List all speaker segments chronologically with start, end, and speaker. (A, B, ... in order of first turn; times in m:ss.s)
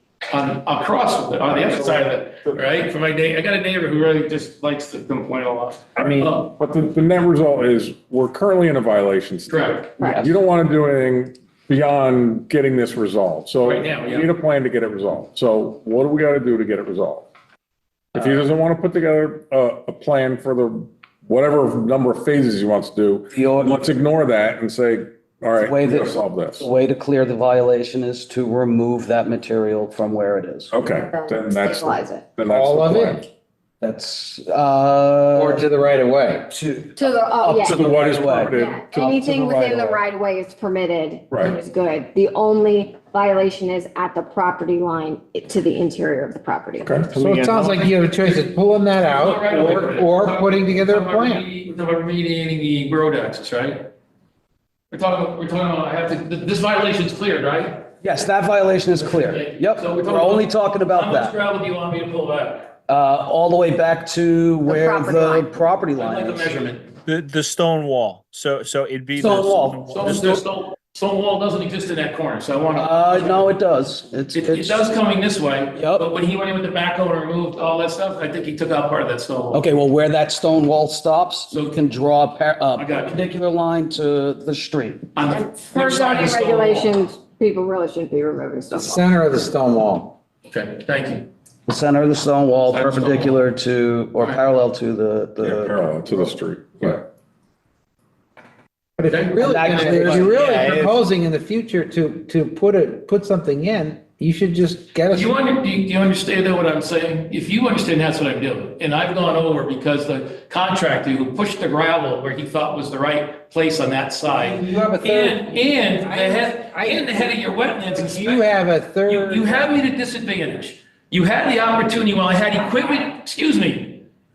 0:00.3-0:06.5 A
0:01.5-0:02.6 B
0:06.0-0:17.3 B
0:09.5-0:09.9 A
0:10.0-0:10.3 C
0:13.6-0:14.3 A
0:18.2-0:26.7 B
0:23.3-0:23.8 D
0:25.5-0:30.8 D
0:30.7-0:33.2 B
0:30.8-0:32.3 C
0:32.5-0:33.2 E
0:33.8-0:35.6 D
0:35.3-0:36.5 E
0:36.5-0:38.6 D
0:37.0-0:37.9 C
0:37.7-0:39.9 B
0:38.4-0:46.9 C
0:46.8-0:47.8 B
0:47.1-0:51.5 E
0:49.0-0:53.9 A
0:54.9-0:57.9 A
0:58.0-1:01.4 D
0:58.9-1:02.8 A
1:02.9-1:06.8 D
1:04.7-1:05.5 C
1:06.0-1:07.0 A
1:07.1-1:10.4 F
1:09.2-1:10.4 D
1:09.9-1:13.6 A
1:12.8-1:14.8 D
1:14.3-1:19.6 A
1:15.8-1:16.1 D
1:19.5-1:25.1 D
1:21.5-1:21.8 A
1:22.8-1:23.2 A
1:25.2-1:27.0 A
1:25.3-1:29.1 C
1:28.7-1:30.2 E
1:30.5-1:31.3 A
1:31.7-1:35.8 D
1:32.7-1:33.4 A
1:35.4-1:37.1 B
1:39.0-1:45.3 E
1:39.1-1:40.9 A
1:39.4-1:40.8 D
1:45.1-1:58.6 A
1:54.4-1:57.4 E
1:57.9-1:59.8 E
1:59.1-2:04.0 A